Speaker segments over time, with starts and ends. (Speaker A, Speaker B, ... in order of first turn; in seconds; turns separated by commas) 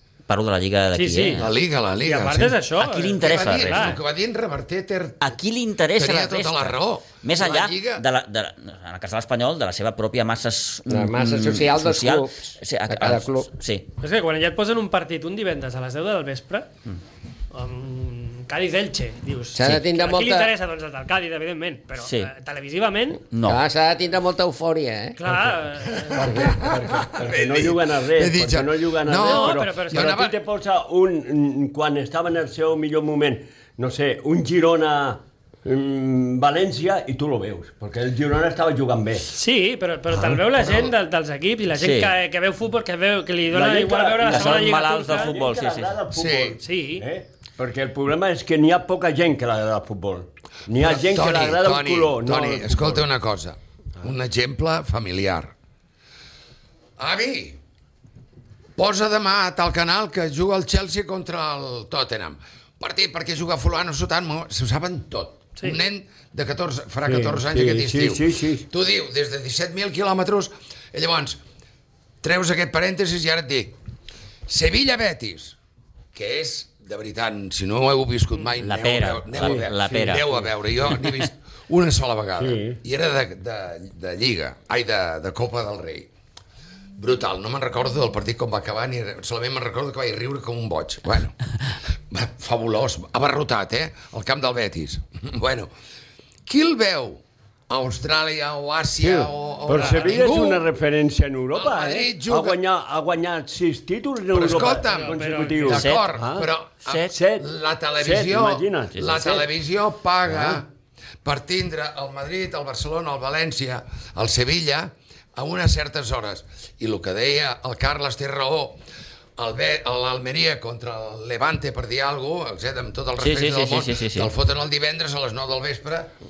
Speaker A: 0.2-1.5, Speaker B: 0.9-1.4, Speaker C: 1.4-2.6, Speaker B: 2.0-4.0, Speaker A: 2.8-4.0, Speaker C: 3.2-5.4, Speaker A: 5.2-13.8, Speaker C: 6.0-8.0, Speaker D: 10.9-13.5, Speaker B: 14.0-16.7, Speaker B: 17.5-23.2, Speaker D: 19.5-20.5, Speaker A: 22.0-22.3, Speaker A: 23.3-23.6, Speaker D: 23.4-25.2, Speaker B: 25.2-26.4, Speaker C: 26.0-30.4, Speaker E: 26.2-39.3, Speaker B: 29.2-30.1, Speaker B: 39.3-45.3, Speaker C: 40.1-40.9, Speaker A: 41.7-42.1, Speaker E: 43.5-53.0, Speaker A: 44.3-46.0, Speaker C: 46.1-46.6, Speaker B: 46.6-47.0, Speaker C: 50.7-55.5, Speaker C: 57.0-57.6, Speaker C: 58.8-71.4, Speaker E: 67.0-68.7, Speaker C: 72.2-73.8, Speaker C: 74.5-75.6, Speaker C: 76.1-86.1, Speaker A: 78.6-80.2, Speaker E: 79.4-80.5, Speaker A: 80.9-81.3, Speaker E: 82.4-82.8, Speaker C: 87.0-91.5, Speaker C: 92.1-95.7, Speaker C: 96.5-100.7, Speaker E: 99.0-106.5, Speaker B: 99.7-100.2, Speaker C: 101.5-102.6, Speaker C: 104.3-110.7, Speaker B: 104.5-105.9, Speaker A: 105.7-106.0, Speaker A: 106.8-107.1, Speaker E: 107.1-109.5, Speaker E: 110.3-110.6, Speaker C: 111.2-118.8, Speaker C: 119.4-126.1, Speaker A: 123.2-124.3